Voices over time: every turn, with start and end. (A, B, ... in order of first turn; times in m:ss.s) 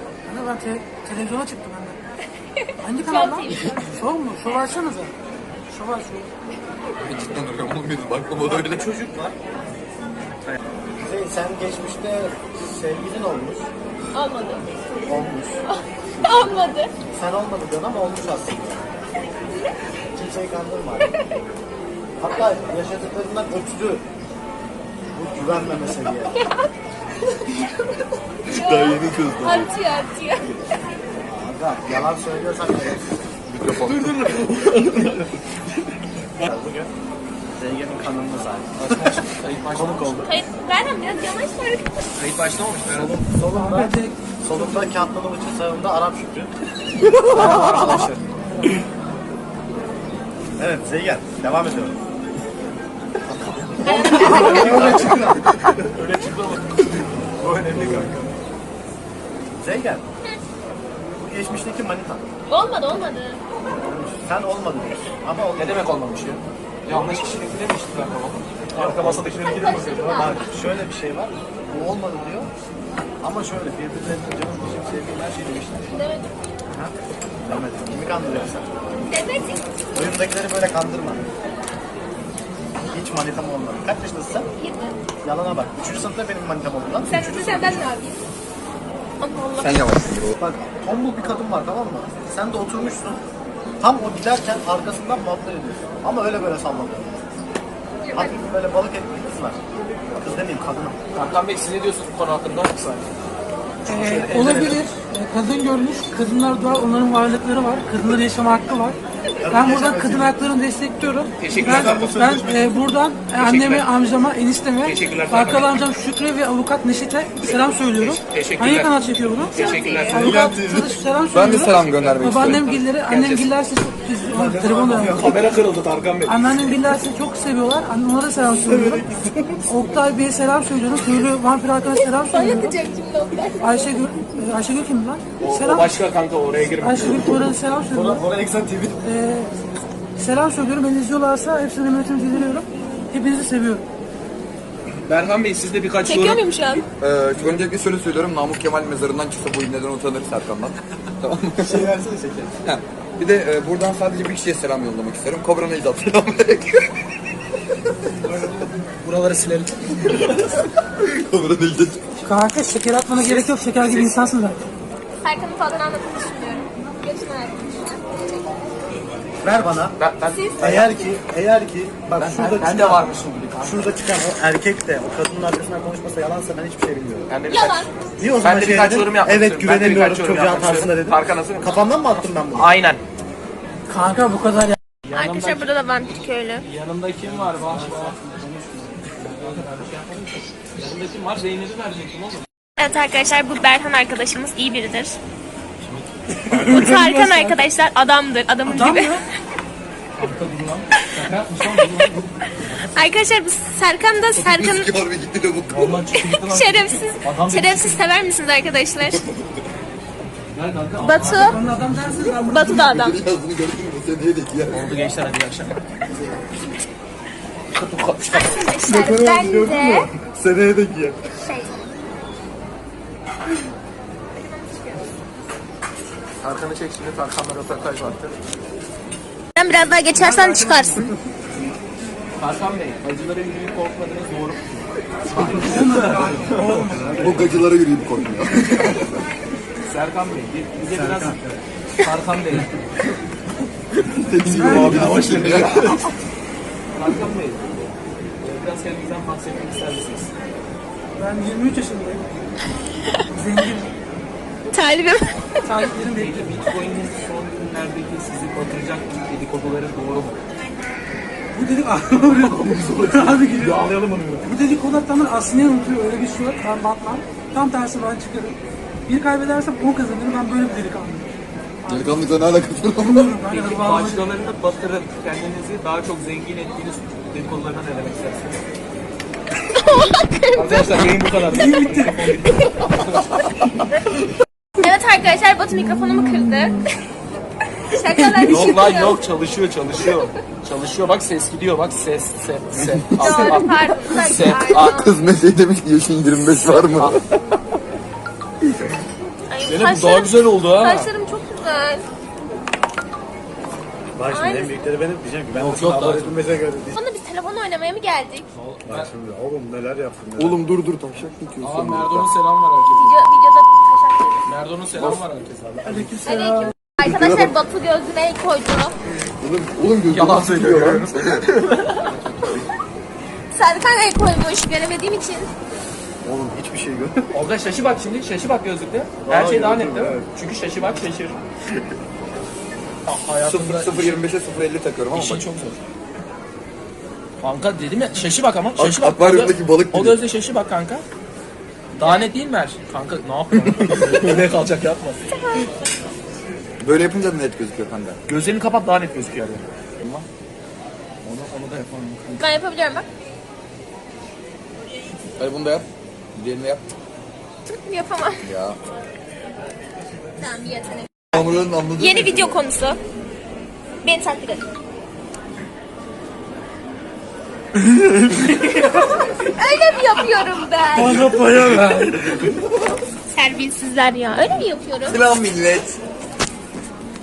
0:00.2-0:02.0 A
0:02.6-0:04.0 B
0:02.8-0:05.1 A
0:05.7-0:06.3 A
0:07.0-0:08.9 C
0:08.4-0:09.4 D
0:11.0-0:13.7 D
0:14.1-0:14.7 B
0:15.0-0:15.6 D
0:15.6-0:16.9 B
0:17.1-0:18.9 D
0:19.5-0:19.7 B
0:20.1-0:21.1 D
0:21.0-0:21.4 B
0:22.2-0:24.0 D
0:25.1-0:26.4 D
0:26.3-0:26.7 B
0:27.3-0:30.6 B
0:28.5-0:29.7 C
0:31.2-0:33.2 D
0:33.4-0:34.3 C
0:33.8-0:35.3 E
0:36.4-0:36.9 D
0:37.5-0:40.3 D
0:38.8-0:40.2 E
0:40.2-0:42.1 B
0:42.2-0:43.2 E
0:42.9-0:46.5 D
0:43.4-0:44.8 A
0:47.2-0:48.3 D
0:50.6-0:52.0 D
0:53.8-0:55.5 D
0:53.8-0:55.0 B
0:53.8-0:56.6 E
0:57.4-0:58.3 E
0:57.7-0:58.1 D
0:59.6-1:00.0 D
1:01.2-1:02.2 D
1:02.5-1:03.4 B
1:03.7-1:05.8 D
1:05.5-1:10.4 E
1:08.7-1:12.5 D
1:09.5-1:10.5 B
1:13.2-1:16.0 D
1:15.9-1:16.3 B
1:16.7-1:18.7 D
1:19.1-1:19.6 B
1:19.9-1:21.2 D
1:22.9-1:24.5 D
1:24.6-1:25.0 B
1:25.2-1:27.8 D
1:27.1-1:28.2 B
1:29.2-1:29.8 B
1:29.6-1:30.4 C
1:30.4-1:33.2 D
1:33.8-1:37.2 D
1:38.0-1:38.4 B
1:38.1-1:39.6 D
1:40.2-1:41.0 D
1:41.1-1:43.1 E
1:43.8-1:49.0 A
1:43.9-1:44.8 E
1:49.4-1:50.3 D
1:49.5-2:05.3 A
1:51.4-1:52.3 E
1:51.6-1:52.5 D
1:53.4-1:53.9 E
1:54.8-1:55.7 E
1:57.9-1:58.9 E
1:59.5-2:00.4 E
1:59.5-2:00.4 B
2:00.1-2:00.9 D
2:01.3-2:02.7 C
2:01.8-2:03.5 E
2:04.3-2:05.6 D
2:04.4-2:06.5 E
2:06.2-2:09.1 A
2:08.5-2:09.6 D
2:09.7-2:12.7 A
2:11.9-2:14.0 B
2:13.6-2:15.9 A
2:15.4-2:17.4 E
2:16.8-2:18.2 A
2:17.9-2:19.0 D
2:19.0-2:19.5 A
2:20.2-2:23.8 A
2:25.0-2:26.8 E
2:26.0-2:26.8 B
2:27.0-2:31.9 C
2:31.6-2:32.5 D
2:32.6-2:36.9 C
2:39.0-2:40.5 E
2:40.9-2:42.0 C
2:42.2-2:44.6 A
2:43.2-2:44.1 E
2:45.2-2:48.6 B
2:49.4-2:50.0 D
2:50.0-2:50.9 E
2:50.3-2:50.9 B
2:50.6-2:57.3 D
2:52.2-2:53.9 E
2:57.3-2:57.9 E
2:57.5-2:57.9 B
2:58.2-3:02.7 D
2:58.4-3:03.0 E
3:03.9-3:04.8 A
3:05.0-3:06.1 E
3:05.1-3:06.6 B
3:06.6-3:08.2 E
3:07.8-3:08.7 D
3:09.2-3:12.4 E
3:12.8-3:15.2 B
3:16.5-3:17.6 A
3:16.5-3:19.2 B
3:18.6-3:19.2 A
3:20.2-3:22.3 E
3:22.9-3:24.9 B
3:24.4-3:26.0 C
3:25.7-3:28.0 E
3:26.1-3:29.2 B
3:29.1-3:29.5 C
3:30.5-3:31.8 E
3:31.0-3:31.6 B
3:31.2-3:32.8 A
3:32.5-3:33.2 B
3:32.5-3:34.9 C
3:34.7-3:35.8 E
3:37.7-3:38.7 E
3:38.3-3:40.1 B
3:38.9-3:41.1 C
3:38.9-3:41.1 D
3:41.2-3:41.9 B
3:44.3-3:45.1 B
3:46.4-3:48.3 E
3:49.5-3:51.1 B
3:50.3-3:50.6 A
3:52.4-3:56.8 E
3:55.3-3:57.5 D
3:55.4-3:57.5 A
3:57.2-3:59.2 C
3:59.8-4:01.4 E
4:00.8-4:01.6 D
4:02.0-4:02.7 E
4:04.0-4:06.0 C
4:04.4-4:06.1 E
4:04.6-4:05.3 A
4:06.9-4:07.9 E
4:08.4-4:10.3 E
4:11.2-4:12.2 A
4:13.3-4:13.9 A
4:14.7-4:15.4 B
4:15.6-4:16.5 A
4:16.1-4:20.4 E
4:21.5-4:32.1 A
4:22.2-4:24.5 E
4:31.9-4:33.4 C
4:33.0-4:34.3 A
4:33.5-4:38.6 E
4:39.7-4:40.9 B
4:40.5-4:43.4 E
4:41.5-4:42.4 A
4:44.8-4:46.8 B
4:47.9-4:49.2 B
4:48.4-4:54.8 E
4:52.7-4:53.6 C
4:53.2-4:55.1 B
4:54.2-4:57.5 C
4:56.9-4:57.2 E
4:59.3-5:02.0 B
4:59.6-5:01.1 E
5:04.1-5:07.0 D
5:04.3-5:04.8 B
5:05.5-5:06.4 E
5:06.9-5:08.5 B
5:08.5-5:09.1 E
5:08.8-5:10.6 D
5:10.4-5:12.3 C
5:11.6-5:13.1 E
5:12.9-5:14.4 B
5:14.4-5:16.7 E
5:15.0-5:15.2 C
5:15.8-5:16.2 D
5:16.2-5:18.9 B
5:17.0-5:17.5 C
5:19.2-5:21.5 C
5:20.1-5:22.1 E
5:22.1-5:22.6 C
5:23.5-5:25.5 B
5:26.2-5:27.3 D
5:27.3-5:31.4 E
5:29.2-5:30.2 D
5:33.0-5:34.2 E
5:33.4-5:35.4 C
5:35.1-5:35.8 E
5:37.4-5:41.0 E
5:38.8-5:40.2 C
5:42.0-5:45.2 E
5:43.5-5:44.2 C
5:45.3-5:45.7 B
5:46.8-5:48.2 C
5:48.3-5:49.6 E
5:50.0-5:50.2 C
5:51.2-5:52.4 E
5:52.4-5:53.1 B
5:55.4-5:56.8 C
5:57.7-5:58.4 B
5:58.4-5:58.8 C
6:00.4-6:01.3 B
6:01.3-6:02.6 C
6:02.0-6:03.0 B
6:04.0-6:04.6 B
6:08.0-6:09.0 E
6:08.8-6:11.2 B
6:11.0-6:12.4 A
6:11.1-6:12.0 E
6:13.3-6:15.2 B
6:15.0-6:16.0 C